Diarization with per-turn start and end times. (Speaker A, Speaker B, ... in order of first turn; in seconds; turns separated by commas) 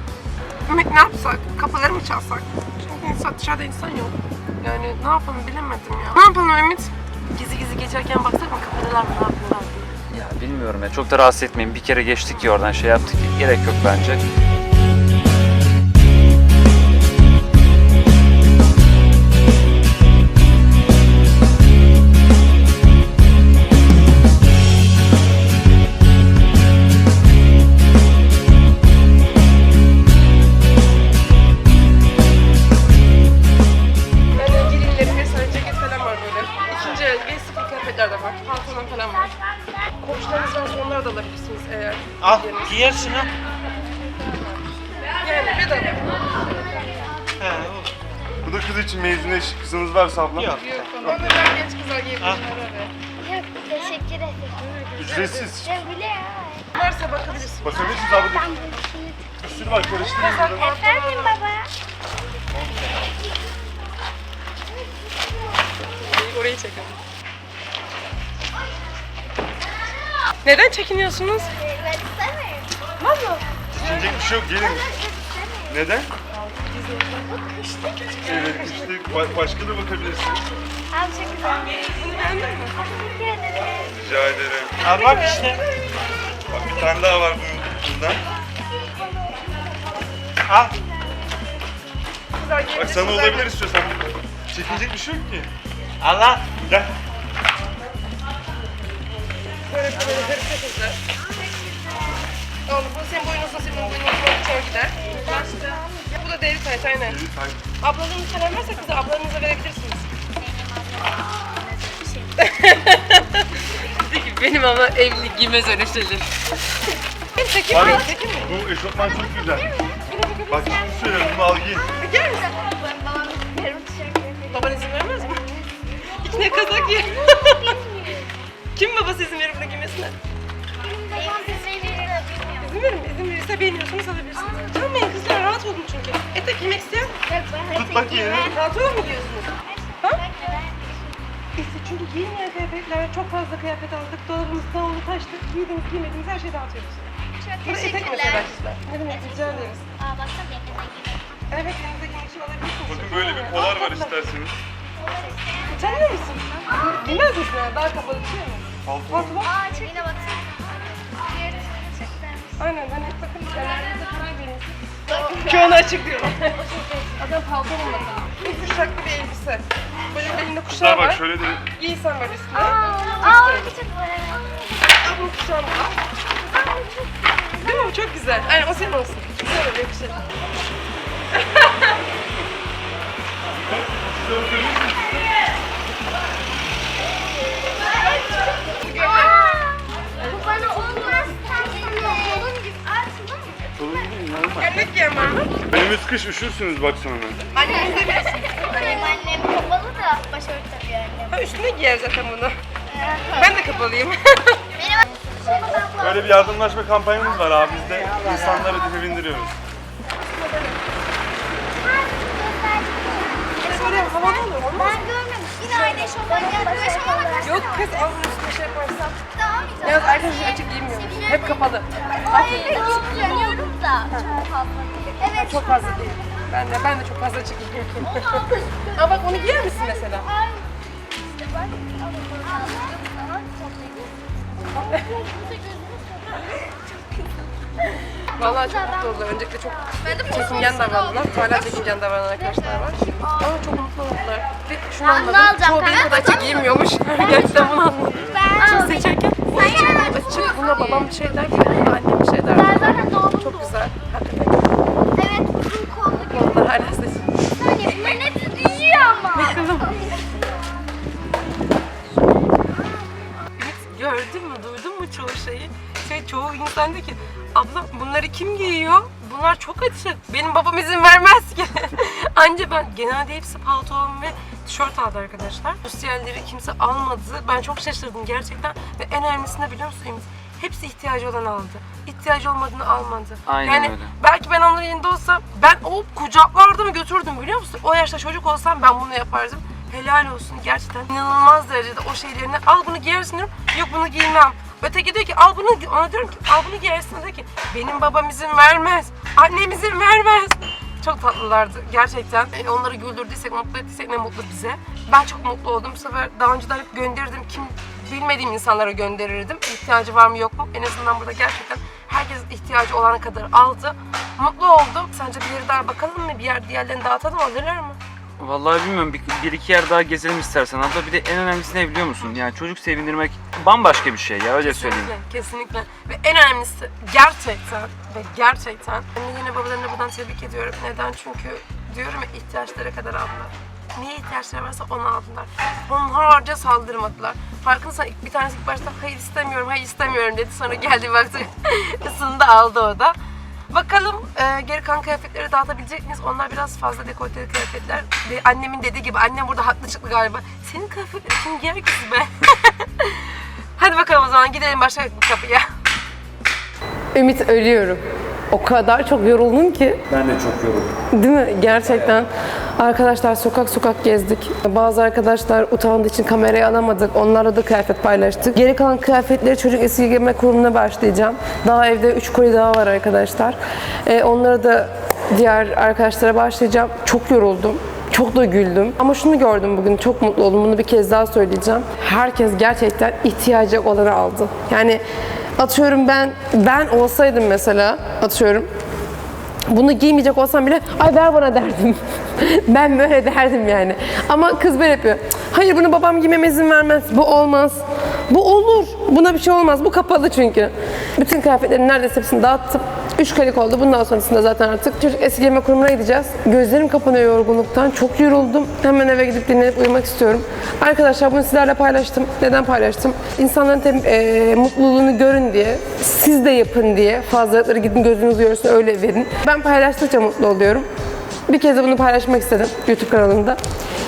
Speaker A: 0.7-9.9, Speaker B: 10.1-14.2, Speaker A: 34.3-39.3, Speaker A: 40.0-42.8, Speaker B: 42.6-43.2, Speaker C: 42.9-43.2, Speaker A: 45.1-46.8, Speaker C: 47.4-47.9, Speaker D: 48.4-51.3, Speaker A: 50.5-52.9, Speaker E: 53.2-54.6, Speaker A: 54.6-55.6, Speaker D: 55.0-55.7, Speaker E: 55.6-56.7, Speaker A: 56.7-57.9, Speaker D: 57.6-58.5, Speaker E: 57.8-59.2, Speaker D: 59.4-60.7, Speaker A: 60.1-61.5, Speaker E: 60.5-61.7, Speaker D: 62.6-63.0, Speaker A: 65.8-67.0, Speaker A: 70.4-71.5, Speaker E: 71.6-72.7, Speaker A: 73.0-74.2, Speaker D: 73.7-74.9, Speaker E: 73.8-75.7, Speaker D: 75.7-76.1, Speaker A: 76.7-77.2, Speaker E: 77.2-78.4, Speaker D: 78.2-80.4, Speaker A: 78.2-78.9, Speaker E: 80.9-82.1, Speaker A: 81.9-82.8, Speaker E: 82.7-84.0, Speaker D: 83.9-84.9, Speaker C: 84.8-85.6, Speaker E: 84.9-85.6, Speaker A: 85.1-85.4, Speaker D: 86.5-88.2, Speaker C: 90.5-90.7, Speaker A: 92.3-93.5, Speaker D: 92.7-95.5, Speaker C: 96.0-96.5, Speaker D: 96.5-96.9, Speaker A: 99.6-101.0, Speaker E: 101.4-102.2, Speaker A: 102.7-107.2, Speaker E: 105.1-105.5, Speaker D: 107.0-107.6, Speaker A: 107.8-110.1, Speaker E: 110.4-112.5, Speaker A: 112.4-116.3, Speaker A: 117.3-118.5, Speaker D: 117.7-119.7, Speaker E: 118.9-120.0, Speaker A: 120.0-120.7, Speaker D: 120.5-121.9, Speaker E: 120.8-124.8, Speaker A: 122.0-122.5, Speaker A: 124.5-125.4, Speaker A: 126.2-127.8, Speaker E: 126.3-128.3, Speaker A: 128.7-130.2, Speaker E: 130.8-132.7, Speaker A: 131.1-131.6, Speaker A: 132.6-137.1, Speaker E: 134.4-134.7, Speaker E: 137.2-138.6, Speaker D: 137.7-138.6, Speaker A: 138.4-139.5, Speaker E: 139.7-141.2, Speaker A: 141.6-147.1, Speaker E: 147.4-148.5, Speaker A: 147.6-149.8, Speaker E: 149.1-151.3, Speaker A: 151.5-154.2, Speaker D: 152.9-154.6, Speaker E: 155.0-155.9, Speaker A: 155.6-159.6, Speaker E: 156.7-157.1, Speaker D: 158.8-159.4, Speaker E: 159.4-162.5, Speaker A: 162.6-173.8, Speaker E: 165.2-165.7, Speaker D: 170.7-171.7, Speaker E: 172.6-174.9, Speaker A: 174.9-176.4, Speaker E: 176.5-177.8, Speaker A: 177.6-180.2, Speaker A: 181.4-181.9, Speaker D: 183.9-185.1, Speaker E: 188.2-193.7, Speaker A: 188.7-189.5, Speaker D: 193.8-194.8, Speaker A: 194.6-195.6, Speaker D: 195.6-197.4, Speaker A: 197.5-199.2, Speaker E: 197.9-201.3, Speaker A: 201.3-202.5, Speaker E: 202.9-203.5, Speaker A: 203.3-204.6, Speaker E: 204.8-206.5, Speaker D: 205.9-209.5, Speaker A: 210.2-210.8, Speaker E: 211.8-218.0, Speaker A: 213.6-215.1, Speaker A: 215.6-216.8, Speaker A: 217.4-219.2, Speaker E: 219.4-221.6, Speaker A: 219.8-223.5, Speaker E: 222.3-226.2, Speaker A: 225.2-230.3, Speaker E: 228.0-229.6, Speaker E: 230.2-237.2, Speaker A: 234.7-235.1, Speaker E: 238.3-239.2, Speaker A: 238.3-254.7, Speaker E: 240.0-241.7, Speaker E: 242.5-243.5, Speaker E: 245.0-251.0, Speaker E: 252.6-253.7, Speaker E: 255.1-256.6, Speaker A: 256.3-257.4, Speaker E: 257.6-260.8, Speaker A: 257.9-258.2, Speaker A: 259.3-260.2, Speaker A: 263.5-318.0, Speaker B: 283.5-284.1, Speaker B: 318.4-325.1, Speaker A: 324.6-343.1, Speaker A: 343.7-355.7, Speaker A: 357.1-360.0, Speaker B: 360.1-360.9, Speaker A: 361.1-385.0, Speaker A: 385.6-388.7, Speaker A: 389.7-420.9, Speaker A: 421.5-423.6